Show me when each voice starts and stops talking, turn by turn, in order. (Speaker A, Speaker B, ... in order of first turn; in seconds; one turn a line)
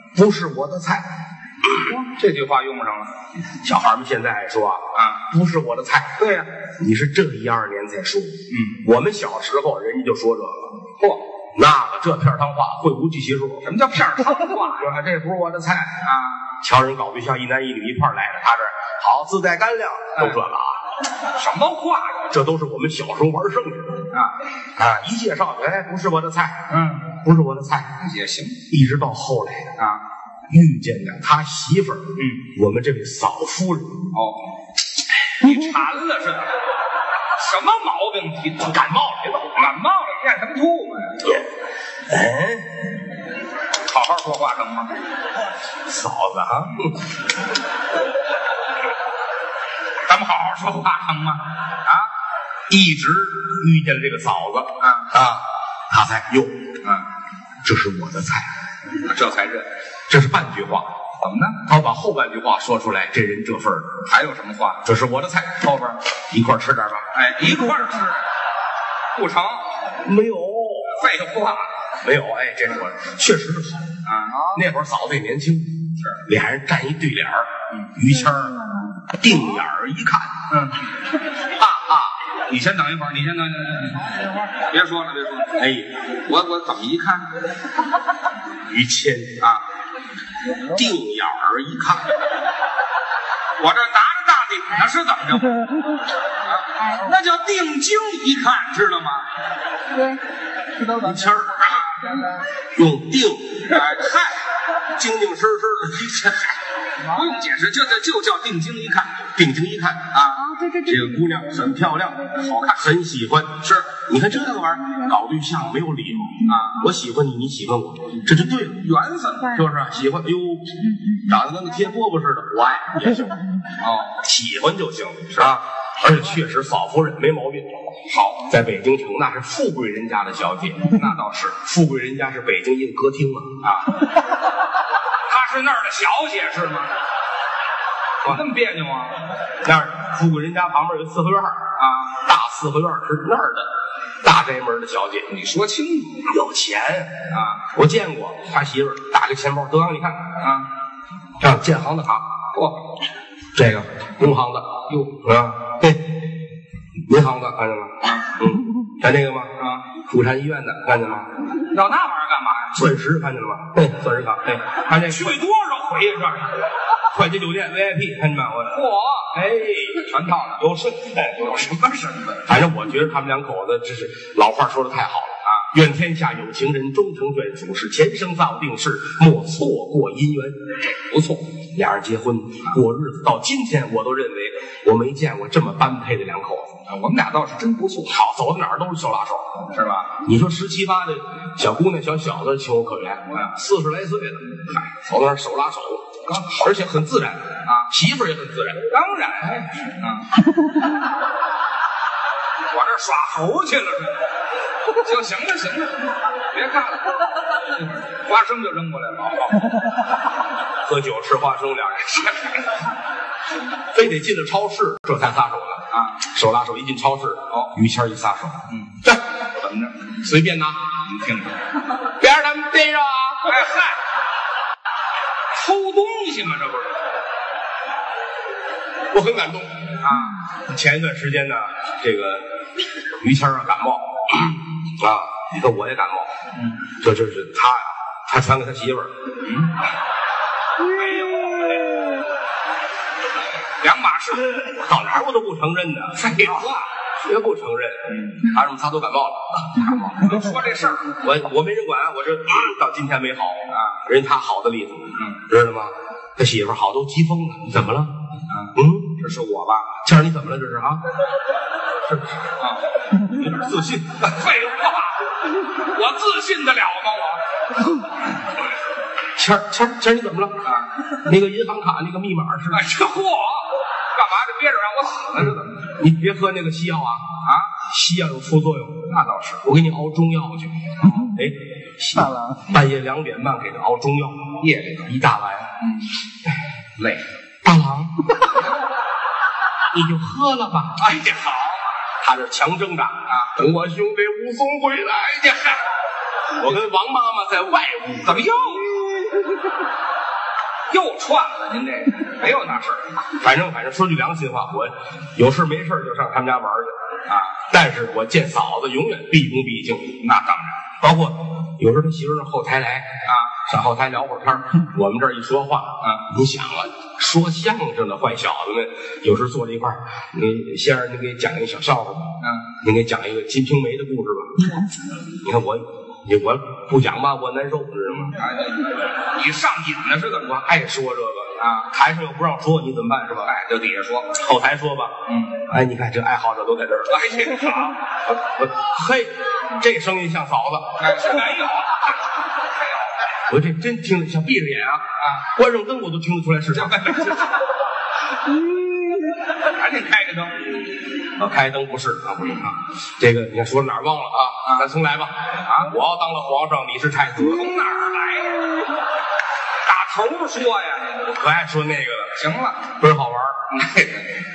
Speaker A: 0.1-1.1
Speaker B: 1.8-3.1
Speaker A: 3.6-10.7
Speaker B: 4.9-5.2
Speaker B: 6.2-6.5
Speaker B: 8.5-8.8
Speaker A: 11.5-13.7
Speaker B: 13.6-14.9
Speaker A: 14.8-16.0
Speaker B: 16.0-16.4
Speaker A: 16.6-20.8
Speaker B: 21.3-22.3
Speaker A: 22.3-24.1
Speaker B: 24.1-24.4
Speaker A: 24.8-27.9
Speaker B: 26.7-27.1
Speaker B: 28.0-28.6
Speaker A: 28.7-29.7
Speaker B: 29.8-30.0
Speaker A: 30.5-34.1
Speaker B: 32.1-32.4
Speaker B: 34.1-34.4
Speaker B: 35.4-36.5
Speaker B: 37.4-38.9
Speaker A: 38.6-39.7
Speaker B: 39.5-41.4
Speaker A: 42.0-42.9
Speaker B: 43.8-45.0
Speaker A: 45.8-47.1
Speaker B: 50.1-52.0
Speaker A: 52.7-56.7
Speaker B: 54.8-55.1
Speaker A: 57.6-58.5
Speaker B: 59.0-59.7
Speaker A: 60.1-60.9
Speaker B: 61.2-61.6
Speaker A: 61.6-64.0
Speaker B: 64.0-64.8
Speaker A: 64.8-67.1
Speaker B: 67.1-68.2
Speaker B: 69.1-69.7
Speaker A: 70.0-71.0
Speaker B: 70.8-71.7
Speaker A: 72.0-74.0
Speaker B: 74.0-74.7
Speaker A: 74.5-78.6
Speaker C: 78.0-79.0
Speaker A: 79.1-80.3
Speaker B: 80.5-80.8
Speaker A: 81.5-82.1
Speaker B: 82.5-85.6
Speaker A: 85.6-85.9
Speaker B: 86.1-87.3
Speaker A: 88.7-89.4
Speaker A: 90.6-92.1
Speaker B: 93.6-95.6
Speaker B: 96.4-99.2
Speaker C: 99.9-100.2
Speaker A: 100.8-102.1
Speaker A: 102.7-103.8
Speaker B: 103.7-104.4
Speaker A: 104.9-106.6
Speaker B: 107.1-109.3
Speaker A: 109.3-110.2
Speaker B: 110.1-110.4
Speaker C: 110.4-112.5
Speaker A: 110.8-118.9
Speaker B: 112.3-112.8
Speaker B: 113.6-113.9
Speaker B: 116.4-116.8
Speaker B: 118.1-119.6
Speaker C: 119.5-119.9
Speaker A: 119.5-123.4
Speaker C: 120.8-121.4
Speaker B: 123.8-124.2
Speaker A: 124.2-127.8
Speaker B: 128.1-128.5
Speaker A: 128.4-130.9
Speaker B: 130.8-131.6
Speaker A: 131.6-133.5
Speaker B: 133.6-134.0
Speaker B: 135.2-136.9
Speaker B: 138.2-139.2
Speaker A: 139.6-145.3
Speaker B: 141.8-142.2
Speaker B: 145.3-146.3
Speaker A: 146.2-150.4
Speaker B: 147.3-147.6
Speaker B: 150.4-150.7
Speaker A: 151.4-152.3
Speaker B: 152.5-152.8
Speaker A: 153.5-156.1
Speaker A: 157.1-161.3
Speaker B: 158.0-158.4
Speaker B: 159.6-159.8
Speaker B: 161.6-162.8
Speaker A: 162.7-165.4
Speaker B: 164.9-166.7
Speaker A: 167.1-168.8
Speaker B: 168.7-169.4
Speaker A: 169.3-171.7
Speaker B: 170.0-170.7
Speaker B: 171.4-172.5
Speaker A: 172.4-180.6
Speaker B: 180.9-181.5
Speaker A: 181.7-186.8
Speaker B: 186.9-188.2
Speaker A: 188.1-189.6
Speaker B: 189.6-190.2
Speaker A: 190.2-198.9
Speaker B: 196.3-196.7
Speaker B: 197.6-197.9
Speaker B: 198.9-200.3
Speaker B: 202.7-204.3
Speaker B: 204.9-207.2
Speaker B: 207.7-209.7
Speaker A: 210.8-212.4
Speaker B: 212.3-212.8
Speaker A: 213.9-219.2
Speaker B: 215.9-216.2
Speaker B: 218.7-220.1
Speaker A: 220.2-220.8
Speaker B: 221.0-221.6
Speaker A: 222.0-223.6
Speaker B: 223.4-224.0
Speaker B: 225.5-227.0
Speaker A: 229.1-230.0
Speaker B: 230.0-230.4
Speaker A: 230.5-232.5
Speaker A: 233.1-236.3
Speaker A: 237.0-239.1
Speaker B: 239.4-239.7
Speaker B: 240.8-242.1
Speaker B: 243.8-244.7
Speaker A: 244.6-246.6
Speaker B: 246.1-246.9
Speaker A: 247.2-250.3
Speaker B: 248.1-248.4
Speaker B: 249.8-251.2
Speaker A: 251.2-258.1
Speaker B: 253.7-254.0
Speaker B: 255.1-255.4
Speaker B: 258.5-260.0
Speaker A: 258.7-259.1
Speaker A: 260.0-261.0
Speaker A: 262.0-262.5
Speaker B: 262.6-263.5
Speaker A: 263.4-264.3
Speaker B: 264.2-267.4
Speaker A: 269.4-270.7
Speaker B: 270.6-270.9
Speaker A: 271.2-272.8
Speaker B: 272.7-275.8
Speaker A: 275.8-277.2
Speaker B: 277.4-277.7
Speaker A: 277.8-279.1
Speaker B: 279.1-279.6
Speaker A: 279.6-285.7
Speaker B: 284.6-285.1
Speaker B: 285.8-286.1
Speaker A: 286.9-288.5
Speaker A: 289.9-291.1
Speaker B: 290.9-291.9
Speaker A: 292.2-295.8
Speaker A: 296.5-298.5
Speaker B: 298.2-299.0
Speaker B: 300.9-303.2
Speaker A: 303.4-306.9
Speaker B: 307.3-307.6
Speaker A: 307.6-310.2
Speaker B: 310.2-310.8
Speaker A: 311.0-324.8
Speaker B: 313.2-313.6
Speaker B: 322.4-322.7
Speaker A: 325.3-328.4
Speaker B: 328.3-330.6
Speaker A: 330.4-333.5
Speaker B: 331.6-331.9
Speaker B: 333.4-334.3
Speaker A: 334.3-337.3
Speaker B: 335.3-335.6
Speaker B: 337.1-338.0
Speaker A: 338.3-341.0
Speaker B: 341.0-342.1
Speaker A: 343.4-347.3
Speaker B: 345.2-345.4
Speaker B: 346.7-347.7
Speaker B: 349.6-350.7
Speaker A: 351.4-357.8
Speaker B: 355.6-355.9
Speaker B: 357.4-358.8
Speaker B: 359.8-361.3
Speaker A: 361.3-362.4
Speaker B: 362.4-362.9
Speaker A: 362.9-363.8
Speaker B: 363.7-364.3